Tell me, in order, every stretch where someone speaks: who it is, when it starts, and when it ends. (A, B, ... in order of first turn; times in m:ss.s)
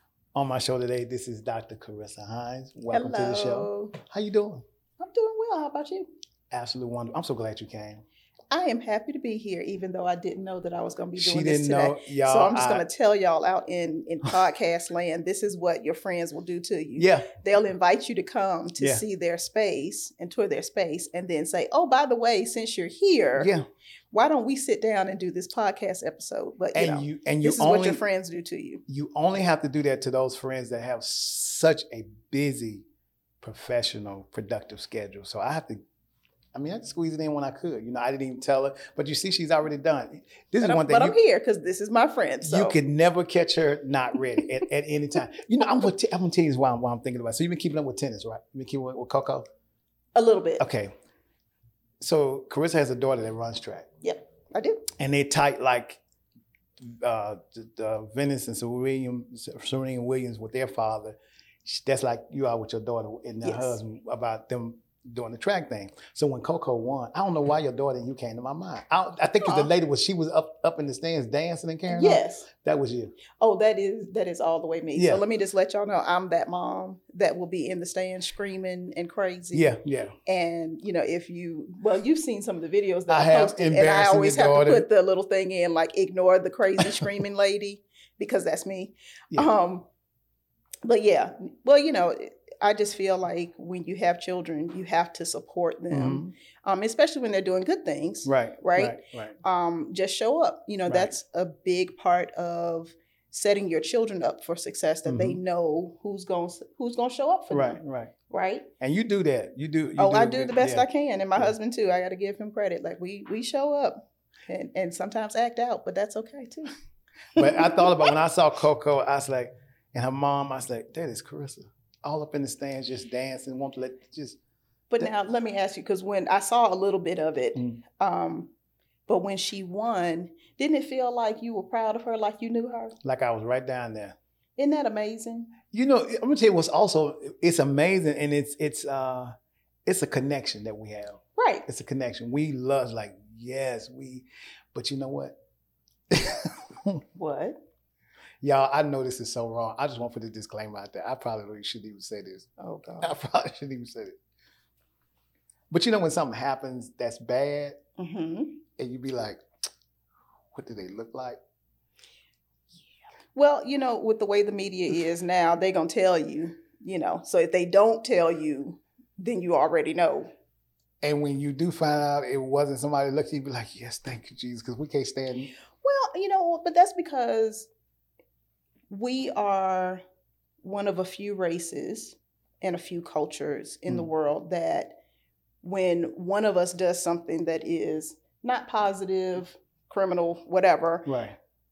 0:00.3-0:04.6 A
0:02.9-0:04.0 B
0:05.0-0:06.1 B
0:06.5-0:08.0 A
0:08.5-0:23.5 B
0:11.2-0:12.8 A
0:17.0-0:17.3 A
0:23.4-0:23.6 A
0:24.1-0:28.8 B
0:26.7-0:28.0 A
0:28.9-0:32.8 A
0:33.4-0:35.8 A
0:36.5-0:41.2 A
0:40.6-0:42.8 B
0:42.4-0:49.4 A
0:50.1-0:50.6 B
0:50.6-0:50.9 A
0:52.0-0:53.9 A
0:54.0-0:54.9 B
0:54.9-0:56.0 A
0:56.8-1:13.2 A
1:03.4-1:03.8 B
1:09.4-1:09.7 B
1:11.9-1:12.5 B
1:13.4-1:29.9 B
1:14.9-1:15.2 A
1:19.5-1:20.2 A
1:23.1-1:24.9 A
1:26.8-1:27.1 A
1:30.8-1:48.7 B
1:35.9-1:36.3 A
1:38.2-1:39.4 A
1:40.9-1:41.1 A
1:45.0-1:45.4 A
1:47.5-1:48.1 A
1:48.8-1:51.5 A
1:50.0-1:56.7 B
1:57.3-1:58.1 B
1:57.4-2:04.4 A
2:04.9-2:08.5 B
2:09.1-2:12.9 B
2:13.0-2:14.2 A
2:14.6-2:15.5 B
2:15.7-2:19.3 A
2:19.8-2:25.4 A
2:21.4-2:21.6 B
2:26.1-2:27.0 A
2:27.1-2:27.6 B
2:28.4-2:32.5 A
2:32.6-2:33.1 B
2:33.0-2:34.1 A
2:35.7-2:37.8 A
2:38.0-2:38.6 B
2:38.8-2:39.4 A
2:40.5-2:41.4 A
2:43.3-2:50.3 B
2:51.0-2:55.5 A
2:55.8-2:57.7 B
2:58.9-3:00.0 B
3:00.6-3:05.0 B
3:05.6-3:11.1 B
3:11.0-3:11.4 A